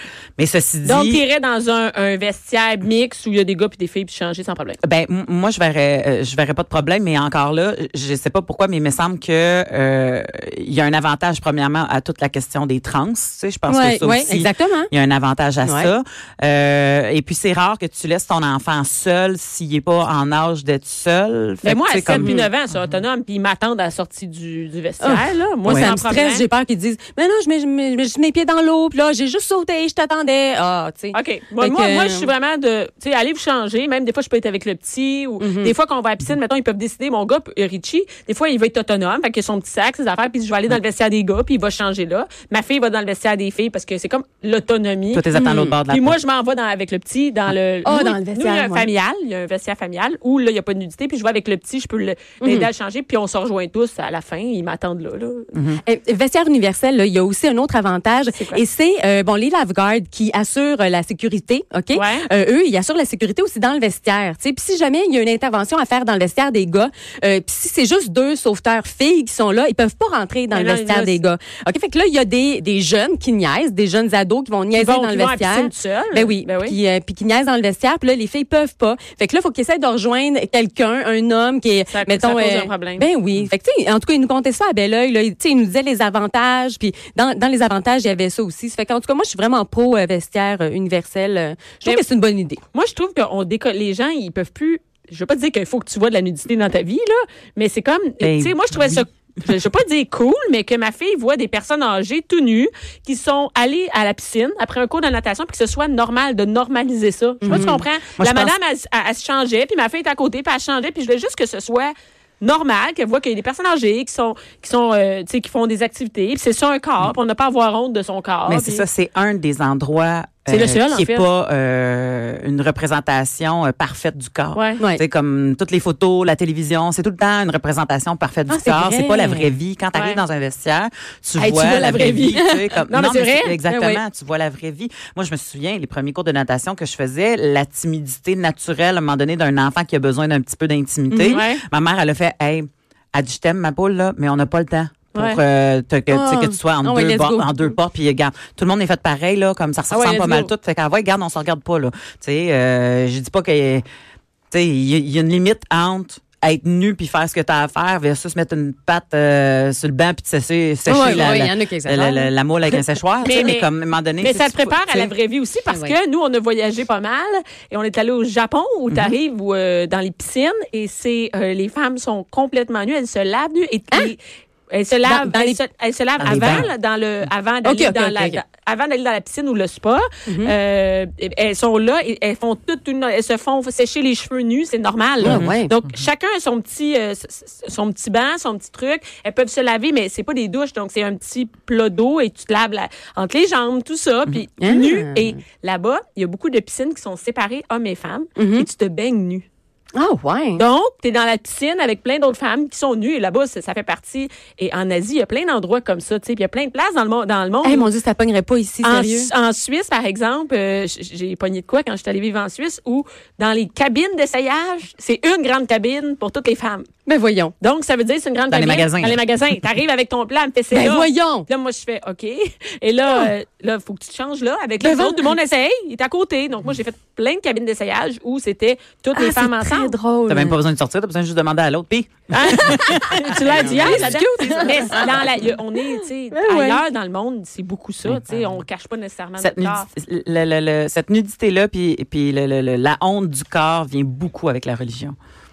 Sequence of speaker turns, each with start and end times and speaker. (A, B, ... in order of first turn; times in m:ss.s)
0:00.4-0:01.2 A
0:00.8-0:04.8 B
0:04.8-0:22.4 A
0:13.7-0:14.9 C
0:15.6-0:15.9 C
0:21.6-0:26.5 B
0:22.1-0:22.4 C
0:25.0-0:32.3 C
0:25.6-0:26.0 A
0:31.1-0:45.3 B
0:35.4-0:35.7 C
0:45.1-0:46.2 A
0:45.3-0:45.8 C
0:45.9-0:55.5 B
0:47.8-0:48.9 C
0:52.4-0:52.7 C
0:55.5-0:55.8 A
0:55.8-1:32.6 C
0:58.3-0:58.6 B
1:01.9-1:02.3 B
1:10.5-1:11.2 B
1:14.7-1:16.8 B
1:21.9-1:23.1 B
1:32.7-1:58.8 B
1:38.2-1:39.0 A
1:47.4-1:47.8 C
1:47.5-1:48.5 A
1:58.5-2:33.8 A
2:00.5-2:01.2 B
2:04.5-2:04.8 B
2:08.5-2:09.5 C
2:09.9-2:10.2 B
2:11.4-2:13.6 B
2:12.4-2:12.7 C
2:13.6-2:14.0 C
2:21.1-2:21.4 C
2:21.2-2:21.6 B
2:25.1-2:25.4 B
2:26.1-2:27.8 C
2:29.9-2:30.5 B
2:34.5-2:45.1 A
2:40.9-2:42.3 C
2:41.0-2:41.3 B
2:43.2-2:43.7 B
2:44.2-3:19.5 B
2:55.0-2:55.6 C
2:56.2-2:56.7 A
2:57.6-2:58.4 C
3:00.3-3:00.5 C
3:05.2-3:05.7 C
3:05.2-3:05.6 A
3:14.6-3:15.3 C
3:18.4-3:18.7 C
3:20.0-3:20.6 C
3:20.6-3:27.9 B
3:27.6-3:29.3 C
3:28.8-3:36.9 B
3:37.1-3:37.5 C
3:37.6-3:49.9 B
3:38.5-3:39.2 A
3:40.7-3:41.5 C
3:44.8-3:45.3 C
3:49.1-3:50.6 C
3:50.3-3:54.2 A
3:52.3-3:59.9 B
3:53.7-3:56.8 C
3:59.4-4:05.2 A